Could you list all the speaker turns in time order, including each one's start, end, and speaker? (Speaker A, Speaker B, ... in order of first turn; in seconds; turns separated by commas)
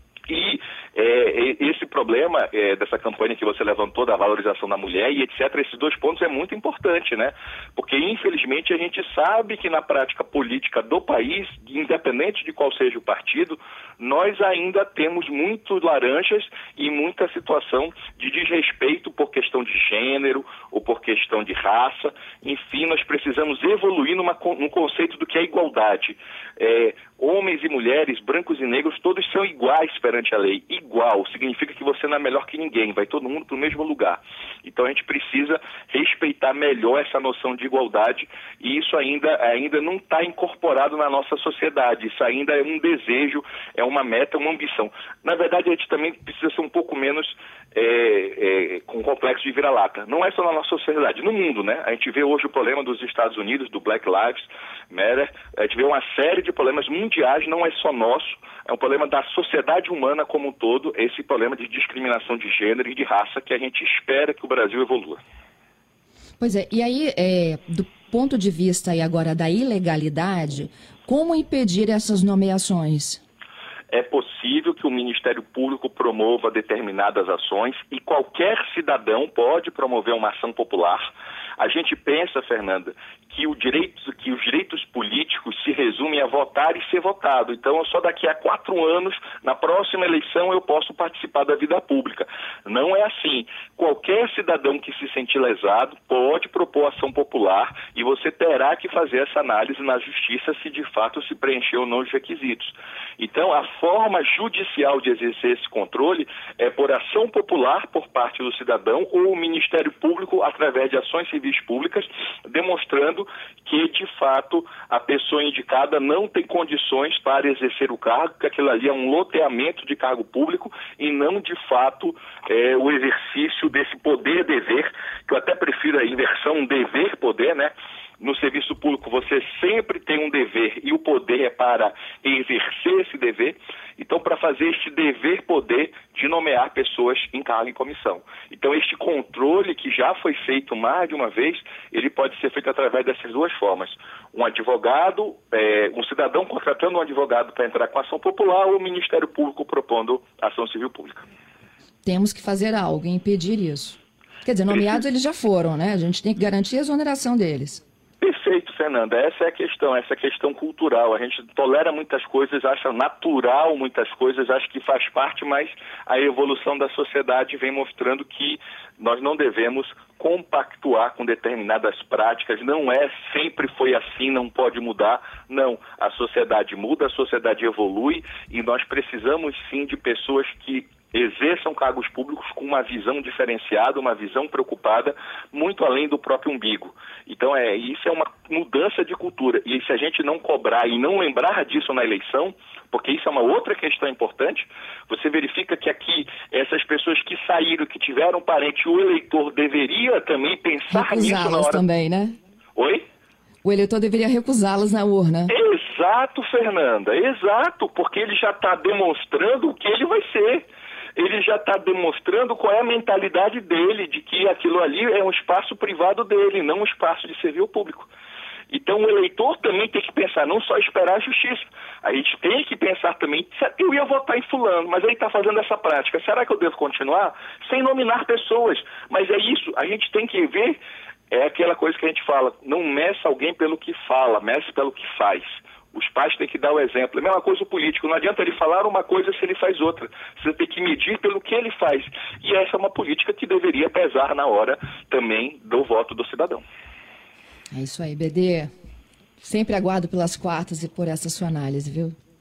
Speaker A: 0.3-65.2, Speaker B: 66.4-73.2, Speaker A: 73.9-151.3, Speaker B: 152.0-157.8, Speaker A: 154.7-155.0, Speaker A: 158.2-201.8, Speaker B: 200.9-202.4, Speaker A: 202.8-203.1, Speaker B: 203.6-205.5, Speaker A: 205.5-218.1, Speaker A: 218.7-230.8, Speaker A: 231.3-246.6, Speaker B: 247.7-248.7, Speaker B: 249.4-252.2